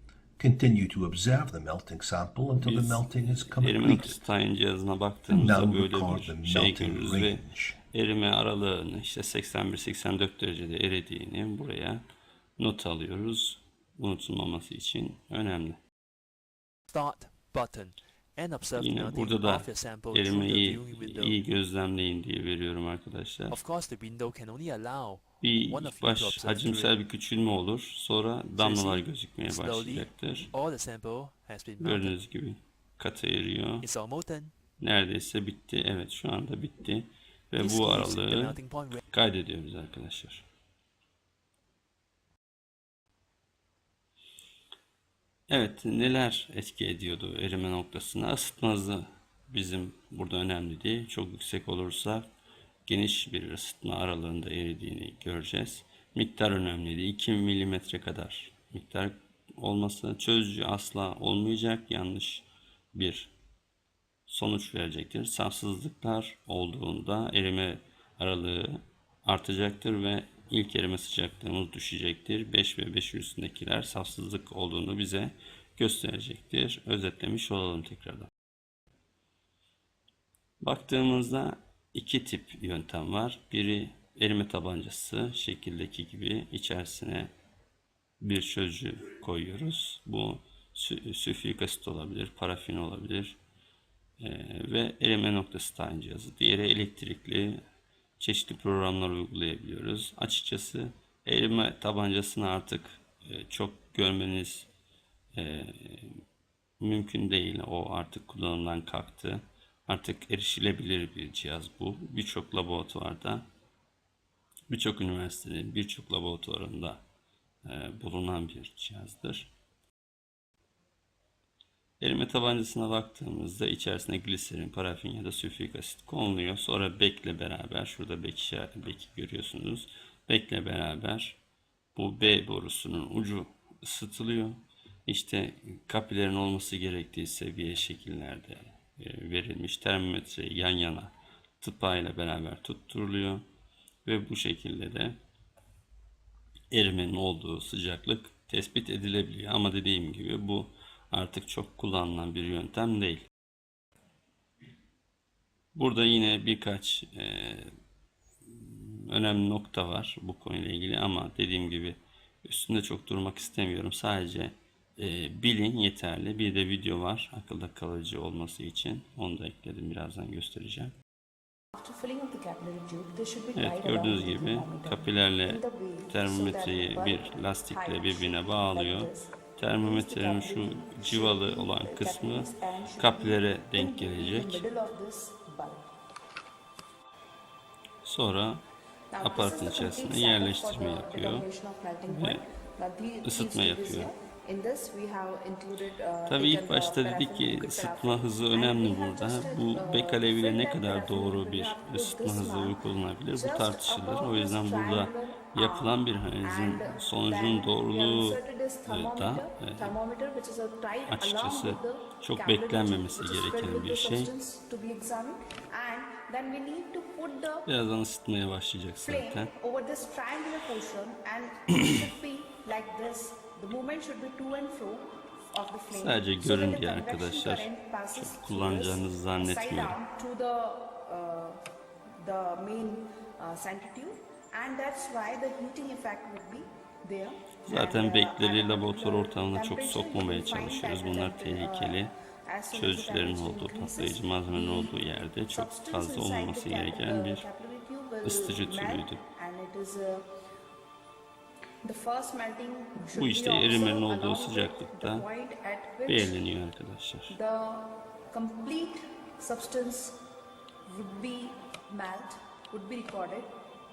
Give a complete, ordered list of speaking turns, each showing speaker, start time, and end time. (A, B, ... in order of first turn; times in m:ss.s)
0:00.4-0:04.2 A
0:02.6-0:12.0 B
0:05.3-0:07.8 A
0:12.6-0:15.8 B
0:16.9-0:21.4 C
0:18.8-0:23.6 B
0:23.5-0:26.9 C
0:25.4-0:30.5 B
0:28.6-0:32.2 C
0:31.8-0:33.9 B
0:33.8-0:34.5 C
0:34.8-0:38.6 B
0:37.6-0:39.0 C
0:39.1-0:40.5 B
0:45.5-0:52.3 B
0:52.9-1:03.3 B
1:04.3-1:18.3 B
1:20.6-1:27.3 B
1:28.2-1:33.4 B
1:34.2-1:37.6 B
1:38.2-1:44.7 B
1:45.3-1:46.2 B
1:46.8-1:53.5 B
1:54.7-1:57.0 B
1:57.6-1:59.5 B
2:02.0-2:11.4 B
2:12.0-2:23.4 B
2:24.1-2:25.2 B
2:26.7-2:33.3 B
2:35.8-2:37.7 B
2:38.5-2:51.0 B
2:51.8-3:05.8 D
2:53.6-3:04.6 B
3:08.0-3:08.6 B
3:09.1-3:37.7 D
3:09.2-3:11.5 B
3:12.1-3:12.4 B
3:13.2-3:14.1 B
3:16.3-3:30.0 B
3:31.1-3:34.3 B
3:37.7-3:39.5 B
3:39.0-3:51.6 D
3:45.9-3:50.0 B
3:52.2-4:10.3 D
3:57.6-4:02.1 B
4:02.7-4:07.5 B
4:08.2-4:09.2 B
4:11.8-4:16.4 D
4:13.0-4:15.2 B
4:16.1-4:17.4 B
4:17.3-4:20.2 D
4:20.8-4:23.6 D